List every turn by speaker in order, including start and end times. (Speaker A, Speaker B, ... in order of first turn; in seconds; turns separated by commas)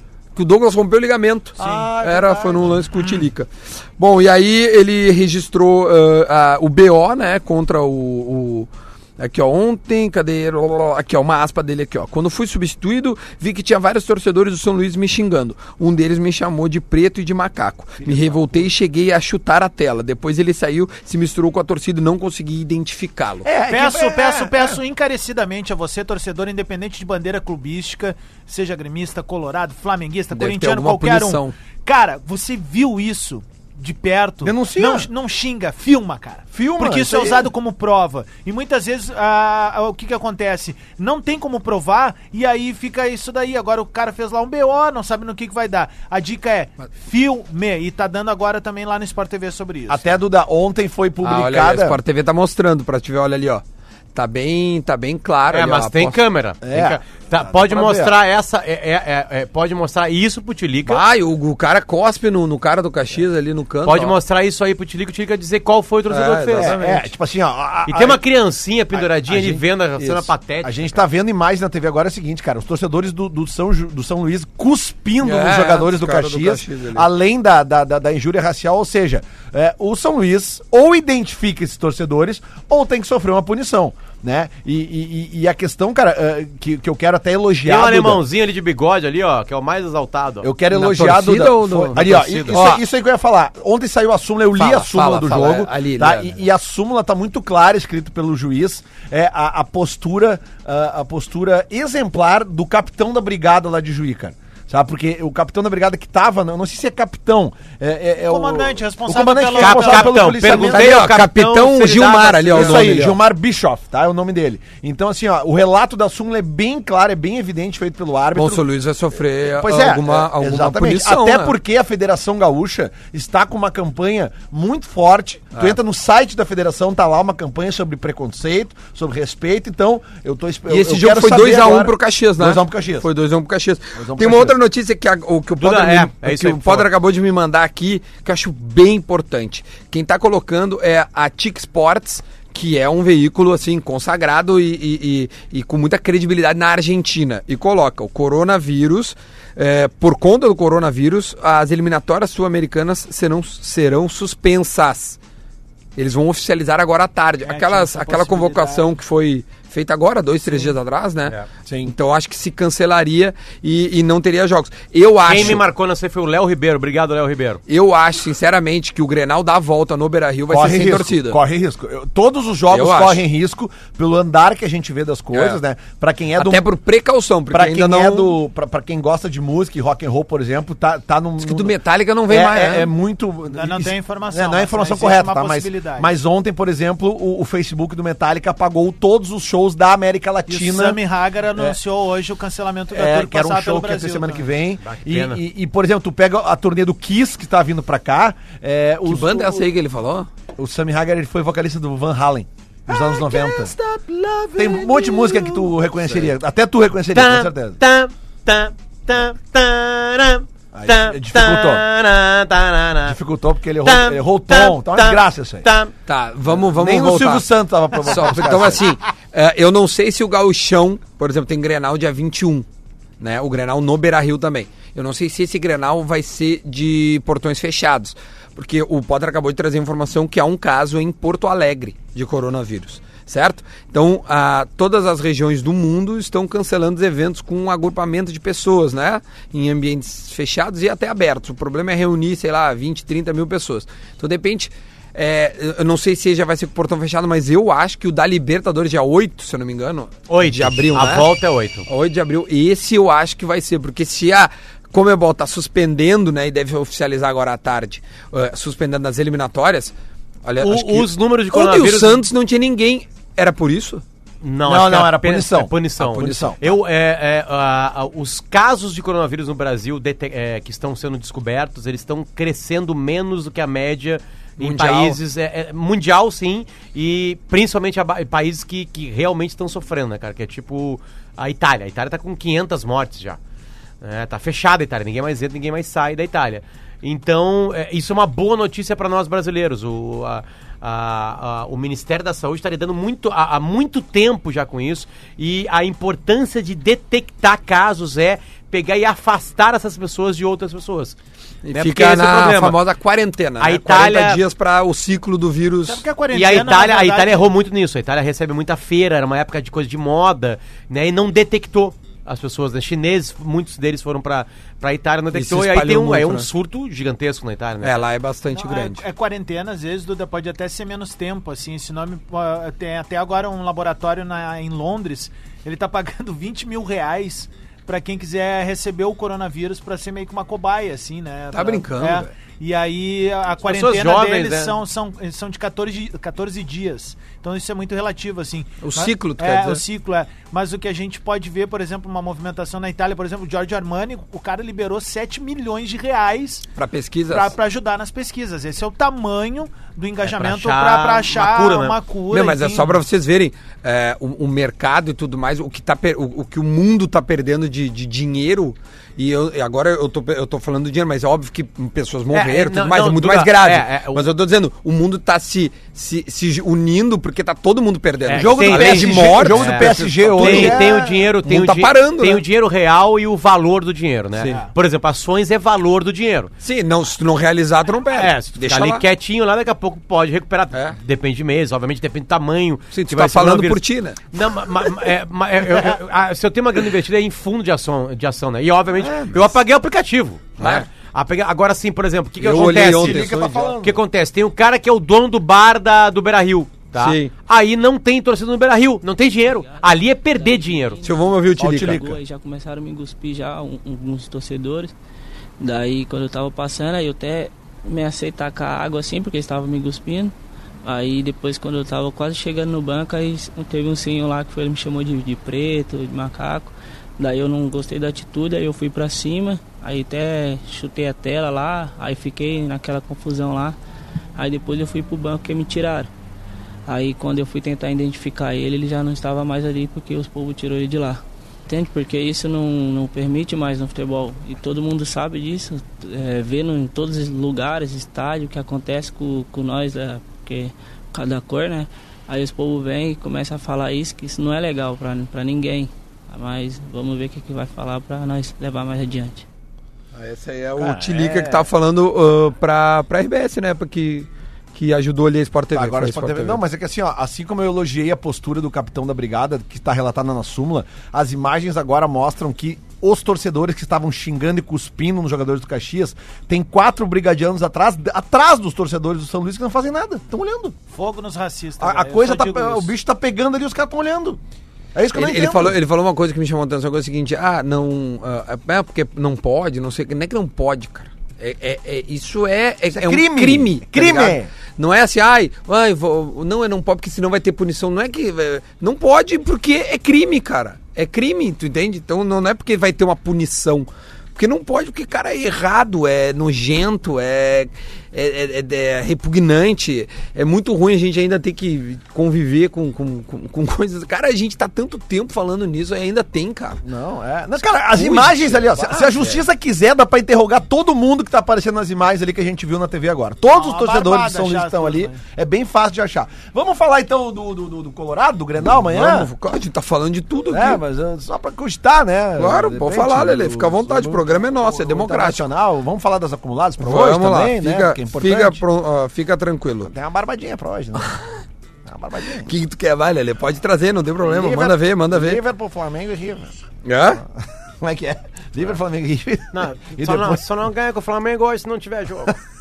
Speaker A: 0.3-23.5, Speaker B: 1.6-2.8, Speaker C: 1.6-1.9, Speaker B: 23.4-24.8, Speaker C: 23.7-50.1, Speaker A: 30.3-31.5, Speaker B: 34.4-35.1, Speaker B: 36.5-37.5, Speaker B: 49.9-52.0, Speaker A: 51.2-56.2, Speaker D: 55.5-61.0, Speaker B: 56.6-58.1, Speaker A: 60.9-64.2, Speaker D: 63.8-66.8, Speaker A: 66.1-67.0, Speaker B: 66.5-68.2, Speaker D: 67.9-71.0, Speaker B: 68.9-88.2, Speaker A: 75.2-77.1, Speaker D: 87.6-90.5, Speaker B: 90.4-111.0, Speaker A: 90.7-92.8, Speaker D: 91.9-92.7, Speaker A: 94.5-96.4, Speaker C: 108.3-110.3, Speaker D: 109.6-113.0, Speaker A: 110.4-113.2, Speaker B: 112.5-118.6, Speaker A: 118.3-121.5, Speaker B: 119.5-133.1, Speaker A: 130.7-155.2, Speaker B: 133.9-134.6, Speaker D: 135.6-136.9, Speaker A: 155.9-165.6, Speaker C: 157.4-158.9, Speaker B: 161.7-161.9, Speaker D: 165.2-167.6, Speaker A: 167.7-171.4, Speaker B: 170.5-176.7, Speaker A: 172.7-173.2, Speaker A: 175.3-175.6, Speaker A: 176.3-178.4, Speaker B: 177.5-191.0, Speaker A: 181.4-182.9, Speaker C: 183.5-186.1, Speaker C: 190.5-194.5, Speaker B: 192.9-199.7, Speaker D: 194.8-195.4, Speaker A: 199.1-200.3, Speaker B: 200.6-203.7, Speaker D: 203.3-205.7, Speaker B: 204.6-207.8, Speaker D: 207.1-213.2, Speaker B: 210.7-211.8, Speaker B: 213.0-215.7, Speaker D: 213.8-215.9, Speaker A: 216.1-217.4, Speaker B: 216.4-218.9, Speaker A: 218.0-222.7, Speaker A: 223.2-251.3, Speaker D: 250.3-251.9, Speaker A: 251.9-264.0, Speaker D: 260.6-262.2, Speaker D: 264.4-283.4, Speaker B: 264.6-266.6, Speaker A: 266.1-266.7, Speaker A: 274.6-275.2, Speaker D: 284.0-301.1, Speaker A: 301.6-306.0, Speaker D: 301.7-302.8, Speaker D: 303.6-304.4, Speaker C: 305.8-307.5, Speaker D: 306.3-318.0, Speaker A: 315.3-316.5, Speaker A: 317.8-319.0, Speaker C: 318.5-346.6, Speaker A: 331.5-332.3, Speaker D: 333.6-334.8, Speaker A: 338.8-339.8, Speaker A: 346.8-347.5, Speaker C: 347.3-353.0, Speaker D: 350.2-352.0, Speaker A: 352.3-372.4, Speaker D: 362.3-364.3, Speaker D: 368.2-376.5, Speaker B: 368.3-371.3, Speaker A: 376.6-379.0, Speaker D: 378.1-401.0, Speaker A: 382.9-384.2, Speaker A: 389.0-389.4, Speaker A: 390.6-390.9, Speaker A: 392.4-393.7, Speaker B: 392.6-394.0, Speaker A: 397.0-397.3, Speaker E: 399.4-404.9, Speaker A: 401.0-402.1, Speaker B: 401.6-402.1, Speaker E: 405.6-423.8, Speaker E: 424.4-426.1, Speaker E: 426.9-449.4, Speaker A: 450.1-456.6, Speaker B: 450.7-451.7, Speaker B: 455.7-470.8, Speaker C: 470.9-472.9, Speaker B: 471.8-474.4, Speaker B: 474.9-475.8, Speaker A: 475.1-506.8, Speaker B: 482.9-484.5, Speaker B: 506.8-519.3, Speaker A: 507.9-509.4, Speaker C: 513.5-515.2, Speaker A: 518.8-520.8, Speaker B: 520.5-528.6, Speaker A: 522.4-525.4, Speaker A: 526.8-529.9, Speaker B: 529.8-531.1, Speaker B: 531.9-532.5, Speaker A: 532.4-535.4, Speaker B: 534.2-536.5, Speaker A: 536.8-537.2, Speaker B: 537.8-540.4, Speaker D: 539.5-542.4